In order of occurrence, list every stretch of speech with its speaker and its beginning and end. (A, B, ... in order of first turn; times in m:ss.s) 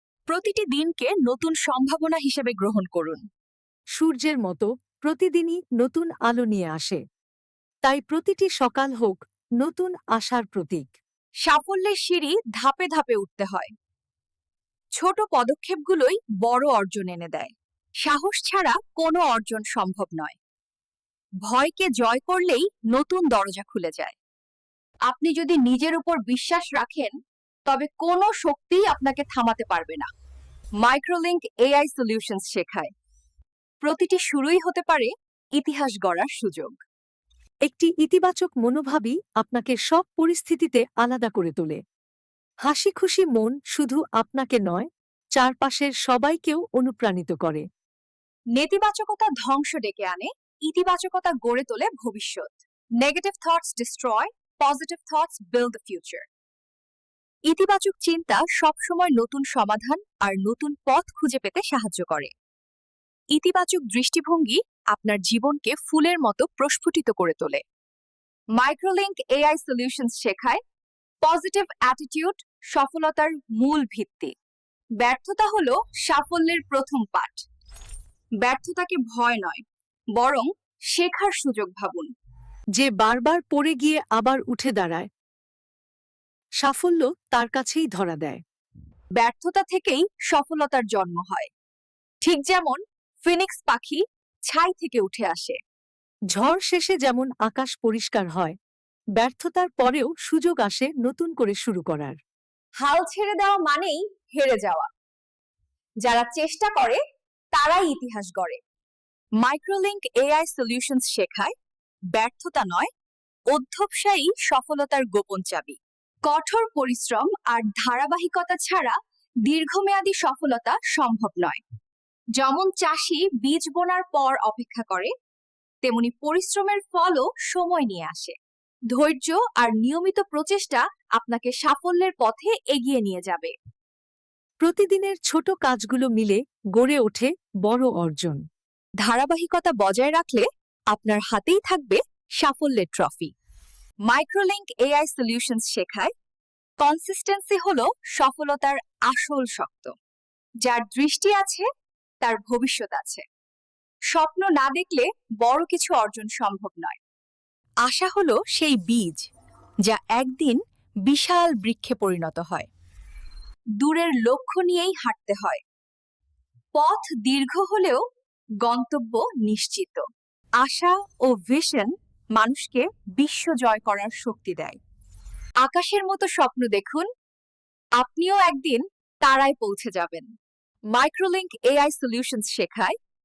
0:00.3-0:03.2 A
0:04.0-0:07.0 B
0:07.8-0:10.9 B
0:11.4-0:13.7 A
0:14.9-0:20.4 A
0:21.4-0:24.2 A
0:25.1-0:27.1 A
0:27.6-0:30.1 A
0:30.8-0:32.9 A
0:33.8-0:36.8 A
0:37.6-0:41.8 B
0:42.6-0:47.6 B
0:48.5-0:56.2 A
0:57.5-1:02.3 A
1:03.3-1:07.6 A
1:08.5-1:10.6 A
1:11.2-1:14.3 A
1:15.0-1:17.4 A
1:18.4-1:19.6 A
1:20.1-1:22.1 A
1:22.8-1:25.1 B
1:26.6-1:28.4 B
1:29.2-1:31.5 A
1:32.2-1:35.6 A
1:36.3-1:38.6 B
1:39.2-1:42.2 B
1:42.8-1:44.9 A
1:46.0-1:47.0 A
1:47.5-1:48.6 A
1:49.4-1:51.5 A
1:52.1-1:52.9 A
1:53.5-2:01.6 A
2:02.4-2:05.1 A
2:05.8-2:08.4 A
2:08.9-2:13.5 A
2:14.6-2:18.4 B
2:19.0-2:23.3 A
2:24.0-2:26.1 A
2:26.8-2:30.0 A
2:30.6-2:31.7 A
2:32.2-2:33.2 A
2:34.1-2:37.0 A
2:37.8-2:39.2 A
2:39.8-2:42.7 A
2:43.8-2:45.6 A
2:46.7-2:48.0 A
2:48.6-2:50.0 A
2:50.6-2:54.8 A
2:55.6-2:57.1 A
2:58.0-3:00.3 A
3:00.9-3:03.0 A